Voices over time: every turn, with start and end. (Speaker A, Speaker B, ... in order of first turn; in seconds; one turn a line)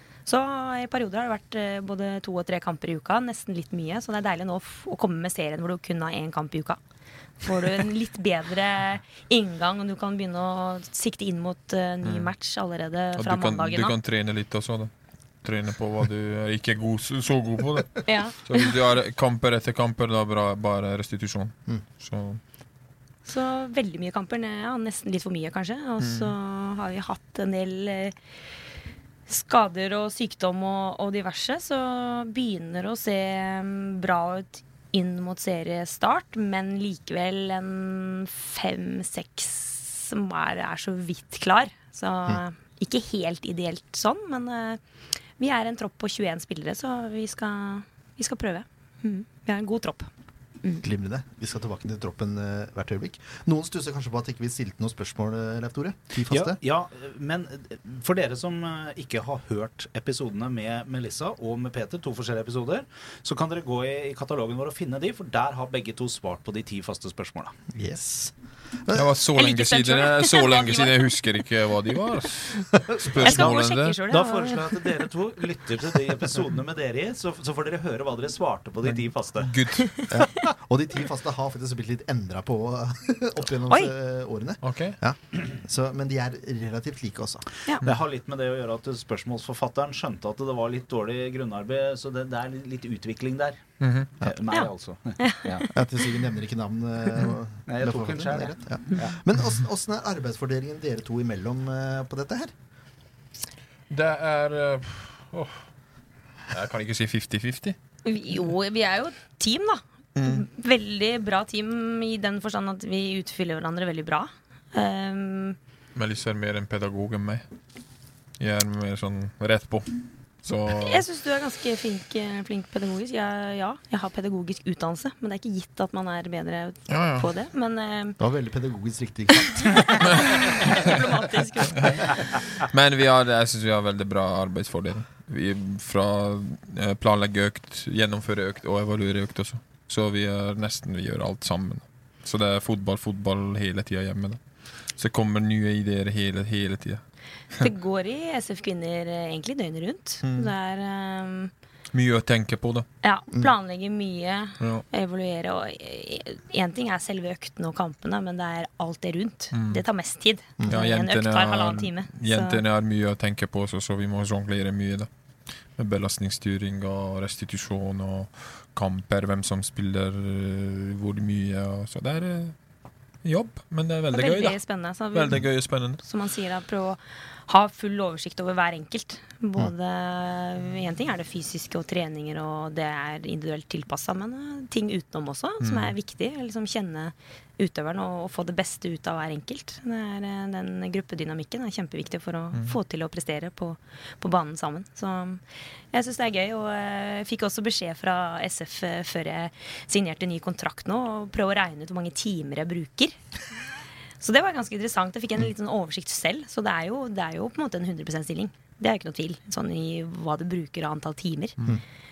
Speaker A: 0.3-6.8
Speaker A: 7.4-14.0
Speaker B: 12.0-12.3
Speaker B: 13.2-14.9
Speaker B: 15.4-22.4
Speaker A: 18.1-18.7
Speaker A: 23.3-28.1
Speaker B: 26.0-26.3
Speaker A: 29.3-44.8
Speaker A: 45.4-50.1
Speaker C: 50.8-56.6
Speaker D: 56.3-67.5
Speaker C: 67.7-68.3
Speaker C: 68.8-69.1
Speaker B: 68.9-74.0
Speaker A: 69.3-71.1
Speaker C: 72.8-73.2
Speaker A: 73.2-75.0
Speaker D: 73.2-79.8
Speaker B: 78.8-79.9
Speaker C: 80.1-87.5
Speaker B: 84.6-85.0
Speaker D: 87.8-95.7
Speaker B: 93.8-94.1
Speaker A: 94.5-96.0
Speaker C: 95.7-102.5
Speaker D: 97.7-99.2
Speaker B: 103.9-105.7
Speaker B: 106.5-107.8
Speaker A: 108.0-115.6
Speaker B: 110.2-110.5
Speaker B: 116.0-117.4
Speaker B: 118.4-121.0
Speaker A: 120.8-128.2
Speaker B: 126.9-127.3
Speaker C: 128.2-130.2
Speaker A: 129.6-132.2
Speaker B: 132.6-147.0
Speaker A: 147.6-151.5
Speaker B: 151.9-152.9
Speaker A: 153.0-162.6
Speaker B: 154.6-154.8
Speaker B: 159.5-159.8
Speaker B: 160.7-165.1
Speaker B: 165.8-172.6
Speaker B: 173.2-176.0
Speaker A: 174.1-203.2
Speaker B: 185.6-185.9
Speaker A: 204.2-211.6